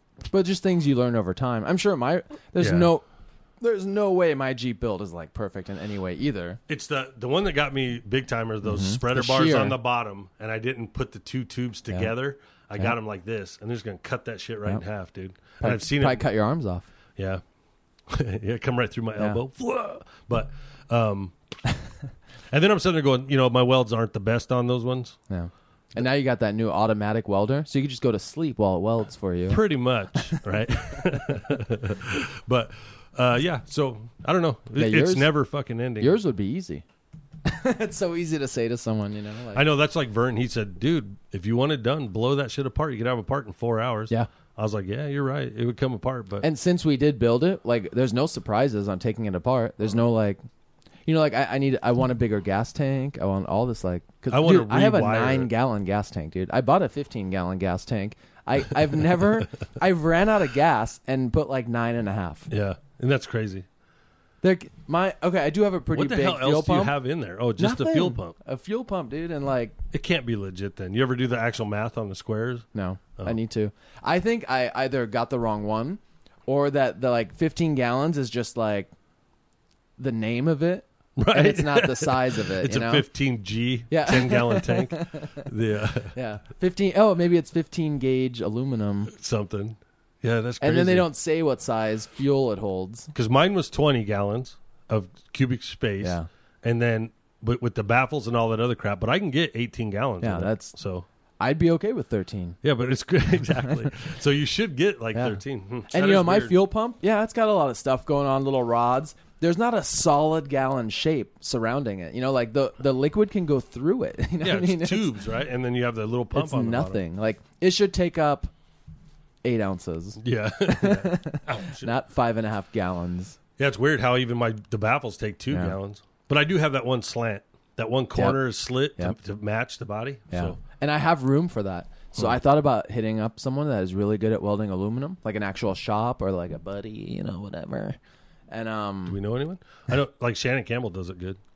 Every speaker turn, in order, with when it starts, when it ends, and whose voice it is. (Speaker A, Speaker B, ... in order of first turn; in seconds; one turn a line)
Speaker A: 0.2-3.0
Speaker B: 2.6-2.9
Speaker A: 3.6-6.6
Speaker B: 6.7-16.2
Speaker A: 8.6-9.8
Speaker A: 15.6-16.9
Speaker B: 17.2-17.4
Speaker B: 18.1-21.3
Speaker B: 22.5-25.2
Speaker A: 25.3-29.6
Speaker B: 29.5-36.1
Speaker A: 34.7-35.3
Speaker A: 36.0-36.8
Speaker A: 37.4-39.6
Speaker B: 39.5-46.5
Speaker A: 46.4-50.4
Speaker A: 51.0-62.5
Speaker B: 54.3-55.5
Speaker B: 62.5-63.6
Speaker A: 64.4-67.0
Speaker B: 65.9-68.3
Speaker A: 67.6-69.8
Speaker B: 69.9-72.7
Speaker A: 72.7-78.9
Speaker A: 80.0-83.0
Speaker B: 81.2-86.2
Speaker A: 83.9-85.4
Speaker A: 86.1-89.1
Speaker B: 89.1-91.1
Speaker A: 90.6-93.1
Speaker B: 93.1-101.0
Speaker A: 96.0-96.3
Speaker A: 100.2-100.7
Speaker A: 101.4-102.6
Speaker B: 102.6-106.6
Speaker A: 105.1-115.1
Speaker B: 114.4-117.0
Speaker A: 116.3-118.5
Speaker A: 119.4-123.4
Speaker B: 120.2-121.9
Speaker B: 123.6-130.6
Speaker A: 125.5-125.8
Speaker A: 128.1-128.4
Speaker A: 130.3-138.0
Speaker A: 138.5-139.2
Speaker B: 139.1-141.4